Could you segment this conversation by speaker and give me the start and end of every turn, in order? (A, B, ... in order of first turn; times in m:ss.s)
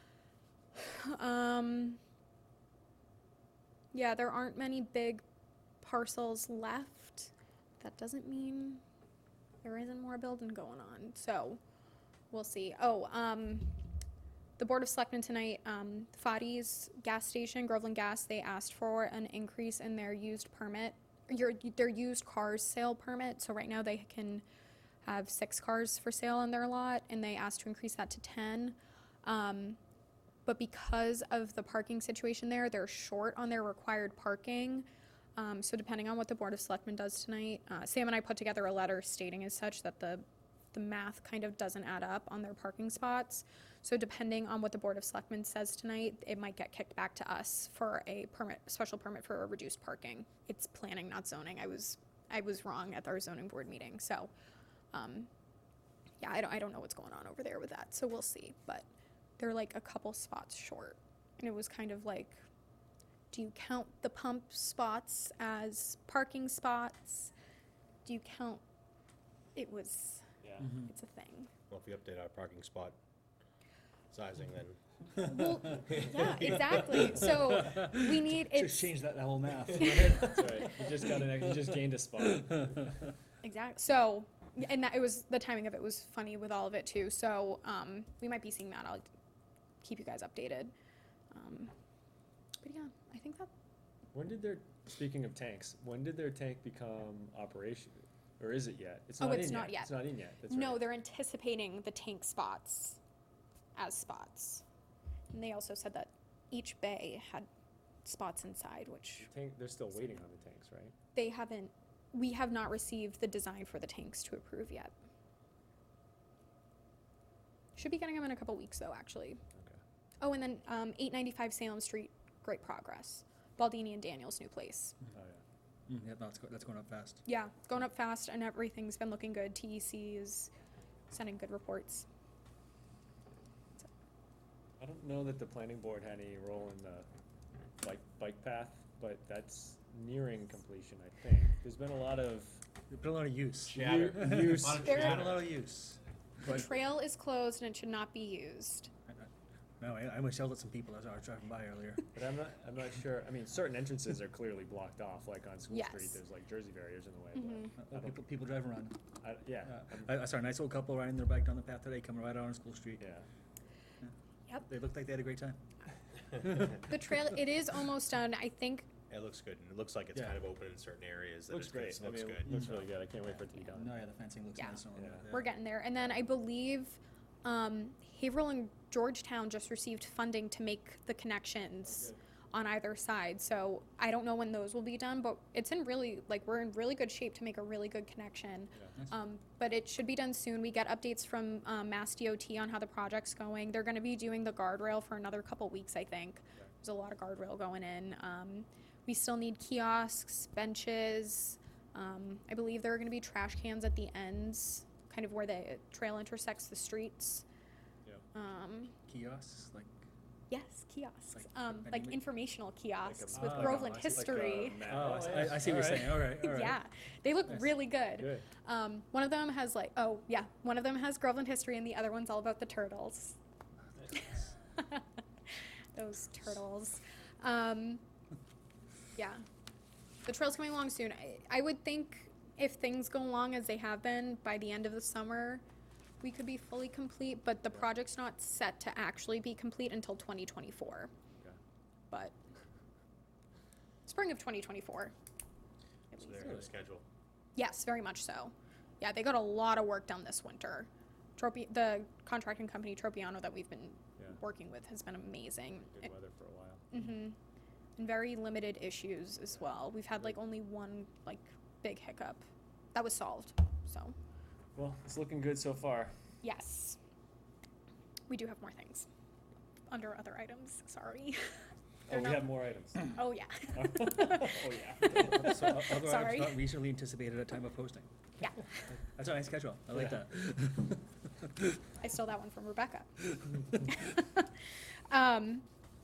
0:00.8-0:02.0 A
0:03.9-0:05.2 A
0:05.8-0:08.8 A
0:09.6-0:11.6 A
0:12.3-0:13.8 A
0:14.6-0:24.4 A
0:25.0-0:29.8 A
0:30.5-0:54.3 A
0:54.9-0:55.3 A
0:56.2-0:58.9 A
0:59.4-1:02.4 A
1:03.3-1:07.3 A
1:08.0-1:08.6 A
1:09.6-1:11.5 A
1:10.4-1:10.7 B
1:11.7-1:13.0 C
1:14.1-1:14.8 C
1:15.2-1:18.9 A
1:16.0-1:16.7 C
1:17.7-1:20.3 D
1:19.8-1:20.3 A
1:19.9-1:22.9 B
1:23.4-1:29.1 A
1:29.8-1:30.7 A
1:31.3-1:31.7 A
1:32.6-1:33.5 A
1:34.1-1:40.9 B
1:39.2-1:43.0 A
1:43.8-1:44.6 A
1:45.3-1:47.5 A
1:48.0-1:49.3 A
1:49.2-1:51.0 B
1:51.2-1:54.9 A
1:57.8-1:59.4 A
2:00.2-2:05.0 A
2:05.1-2:05.4 B
2:05.9-2:07.2 D
2:07.3-2:10.5 A
2:11.1-2:12.1 A
2:14.8-2:17.1 B
2:17.8-2:22.6 B
2:22.9-2:26.0 D
2:23.6-2:25.5 C
2:23.7-2:25.3 B
2:24.8-2:25.2 A
2:26.4-2:28.9 A
2:29.8-2:32.1 D
2:32.1-2:38.2 B
2:35.7-2:36.2 A
2:37.4-2:37.7 A
2:37.8-2:39.0 D
2:39.2-2:40.1 B
2:39.6-2:43.1 D
2:43.0-2:43.3 B
2:44.6-2:45.6 D
2:46.4-2:46.9 D
2:46.6-2:48.9 A
2:49.1-2:52.9 C
2:51.5-2:54.0 B
2:53.7-2:55.5 D
2:54.6-3:27.4 A
2:55.0-2:55.4 B
3:28.3-3:28.9 A
3:29.1-3:30.0 D
3:30.5-3:34.9 A
3:31.5-3:32.2 D
3:33.0-3:36.2 B
3:33.4-3:36.8 D
3:36.4-3:43.4 A
3:38.2-3:38.4 B
3:44.1-3:45.0 A
3:46.0-3:48.0 A
3:49.2-3:49.4 A
3:50.2-3:55.6 A
3:56.2-4:01.1 A
4:02.1-4:02.4 A
4:04.0-4:05.1 A
4:06.1-4:06.6 A
4:06.1-4:07.0 C
4:07.6-4:16.1 A
4:15.9-4:16.9 B
4:16.9-4:17.4 A
4:18.0-4:24.2 A
4:24.8-4:26.1 B
4:26.4-4:27.0 A
4:28.3-4:29.1 A
4:29.9-4:31.5 A
4:32.1-4:35.5 B
4:32.1-4:36.6 A
4:35.1-4:38.1 D
4:39.0-4:41.8 D
4:42.0-4:43.2 A
4:43.8-4:44.5 A
4:45.1-4:45.7 A